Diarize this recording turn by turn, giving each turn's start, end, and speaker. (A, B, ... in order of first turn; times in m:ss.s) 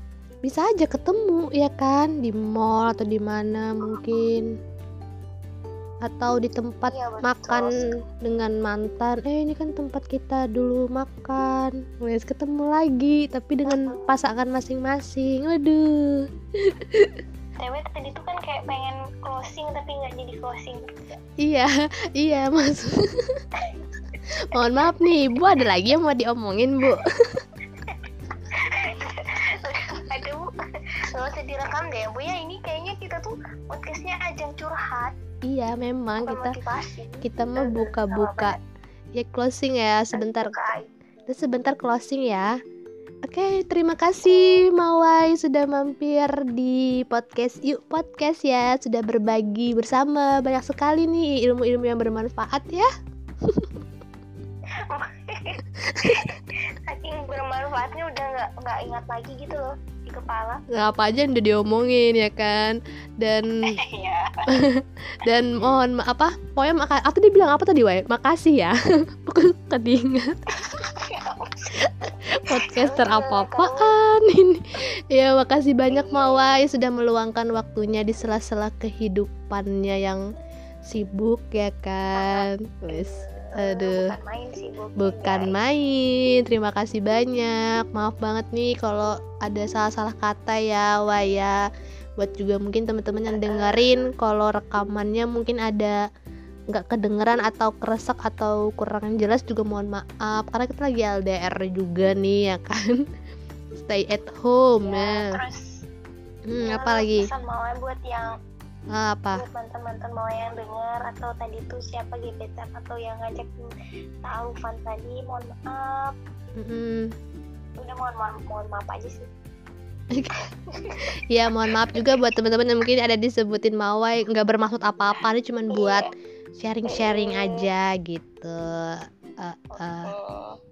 0:00.4-0:04.5 A
0:06.0-0:17.2 A
0:06.9-0:07.9 B
0:13.6-0:14.1 B
0:17.6-0:21.1 B
0:21.4-0:23.4 A
0:24.4-0:27.4 A
0:27.8-0:30.5 B
0:31.1-0:35.1 B
0:35.5-0:36.6 A
0:36.2-0:38.6 B
0:37.2-0:38.6 A
0:39.1-0:40.5 A
0:40.1-0:40.9 B
0:41.3-0:42.5 A
0:43.2-0:52.9 A
0:44.3-0:44.7 B
0:53.4-0:53.7 A
0:54.8-1:00.6 B
0:55.9-0:56.3 A
1:00.7-1:03.5 A
1:03.8-1:04.6 B
1:04.5-1:10.8 A
1:10.6-1:13.9 B
1:11.8-1:20.2 A
1:15.9-1:16.6 B
1:20.8-1:24.1 A
1:22.1-1:25.6 B
1:25.0-1:31.6 A
1:32.2-1:36.0 A
1:33.4-1:34.1 B
1:36.7-1:43.0 A
1:43.8-1:45.3 A
1:44.8-1:45.8 B
1:46.5-1:47.3 A
1:46.6-1:48.3 B
1:48.9-1:49.4 A
1:49.3-1:53.7 B
1:54.2-1:56.1 B
1:56.6-1:57.1 A
1:57.8-1:59.3 B
2:00.4-2:01.0 B
2:01.3-2:10.1 A
2:01.6-2:02.1 B
2:05.7-2:06.1 B
2:06.8-2:07.6 B
2:09.7-2:10.6 B